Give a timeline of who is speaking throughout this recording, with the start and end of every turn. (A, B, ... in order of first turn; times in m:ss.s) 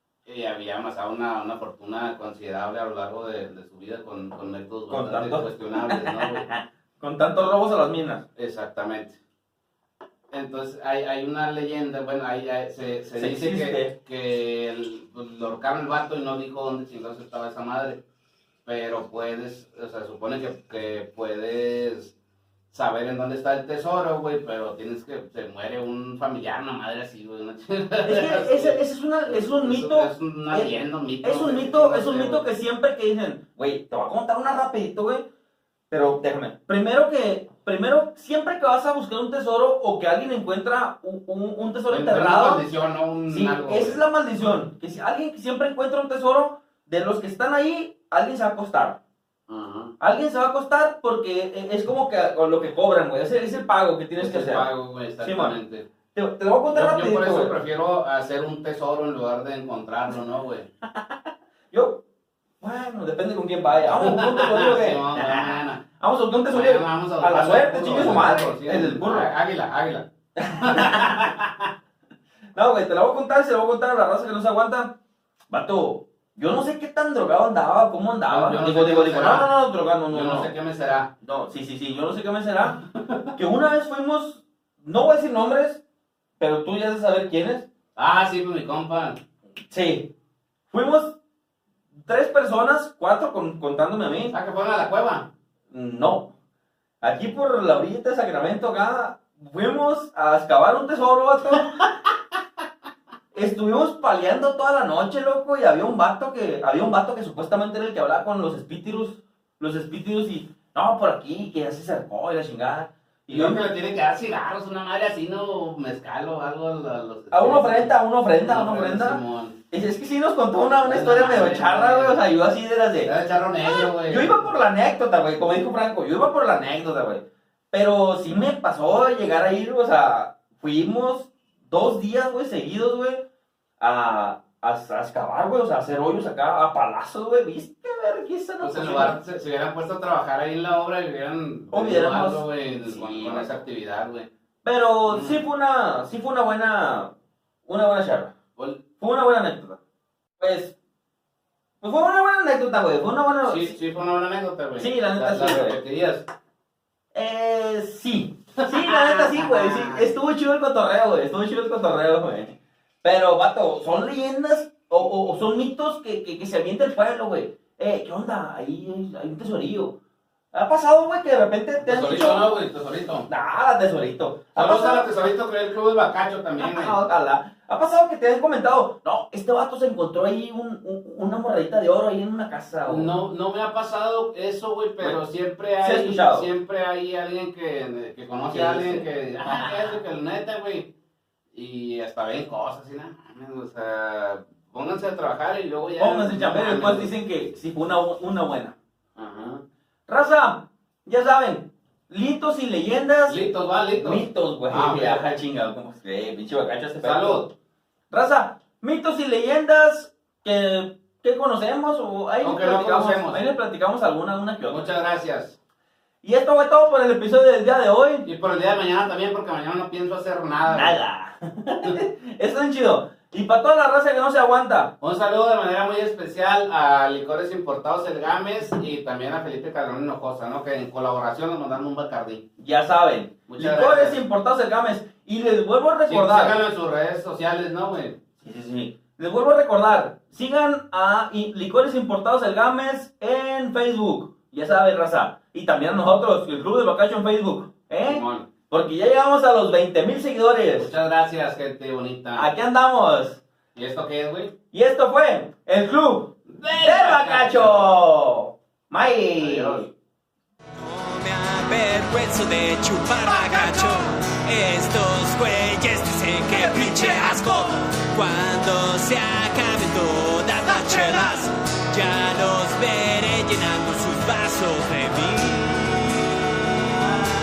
0:00.2-0:06.4 A
0:04.9-0:08.2 B
0:08.4-0:09.2 A
0:10.3-0:18.0 A
0:13.2-0:13.9 B
0:18.6-0:22.1 A
0:22.7-0:32.5 A
0:28.0-0:35.3 B
0:35.9-0:42.6 B
0:41.9-0:44.0 A
0:43.3-0:49.0 B
0:49.5-0:49.9 A
0:50.0-0:54.6 B
0:54.2-0:55.8 A
0:55.2-0:55.5 B
0:56.1-0:57.5 B
0:56.7-1:00.7 A
1:00.9-1:01.1 B
1:01.7-1:02.0 B
1:02.6-1:09.3 B
1:03.9-1:05.8 A
1:06.5-1:11.7 A
1:10.4-1:11.3 B
1:12.5-1:15.0 B
1:15.5-1:20.5 B
1:18.3-1:19.5 A
1:20.1-1:21.1 A
1:21.2-1:22.8 B
1:23.3-1:25.8 B
1:26.4-1:27.7 B
1:28.0-1:29.2 A
1:29.7-1:30.1 B
1:30.7-1:31.2 B
1:31.9-1:34.3 B
1:34.3-1:35.3 A
1:35.7-1:36.3 B
1:37.0-1:41.8 B
1:43.3-1:53.7 B
1:53.3-1:59.6 A
1:57.3-1:59.2 B
1:59.7-2:03.1 B
2:00.8-2:02.2 A
2:03.0-2:04.4 A
2:03.6-2:13.2 B
2:13.8-2:19.2 B
2:18.6-2:24.3 A
2:21.7-2:23.6 B
2:24.6-2:27.1 B
2:25.1-2:25.4 A
2:27.6-2:28.3 B
2:29.0-2:29.8 B
2:30.4-2:30.7 B
2:31.8-2:33.7 B
2:33.4-2:36.3 A
2:34.8-2:35.8 B
2:37.1-2:50.0 B
2:38.6-2:40.1 A
2:50.5-2:52.5 B
2:51.8-2:53.3 A
2:53.3-2:55.1 B
2:54.5-2:57.0 A
2:56.6-3:03.1 B
3:02.8-3:10.9 A
3:05.8-3:06.5 B
3:08.5-3:09.9 B
3:11.5-3:17.1 A
3:16.0-3:18.8 B
3:19.2-3:19.6 A
3:20.1-3:23.4 B
3:23.2-3:25.4 A
3:24.0-3:27.5 B
3:27.0-3:27.5 A
3:28.1-3:34.9 B
3:32.4-3:33.4 A
3:34.6-3:35.6 A
3:36.2-3:38.3 B
3:38.2-3:41.0 A
3:40.7-3:44.9 B
3:45.0-3:52.4 A
3:52.6-3:56.6 B
3:53.5-3:54.2 A
3:56.1-3:58.2 A
3:58.4-4:10.9 B
4:08.0-4:08.4 A
4:10.8-4:12.5 A
4:12.3-4:13.4 B
4:13.7-4:14.5 A
4:14.7-4:19.9 B
4:16.4-4:17.9 A
4:19.4-4:19.9 A
4:20.8-4:36.0 C
4:23.1-4:24.1 B
4:26.4-4:28.0 B
4:30.6-4:31.5 B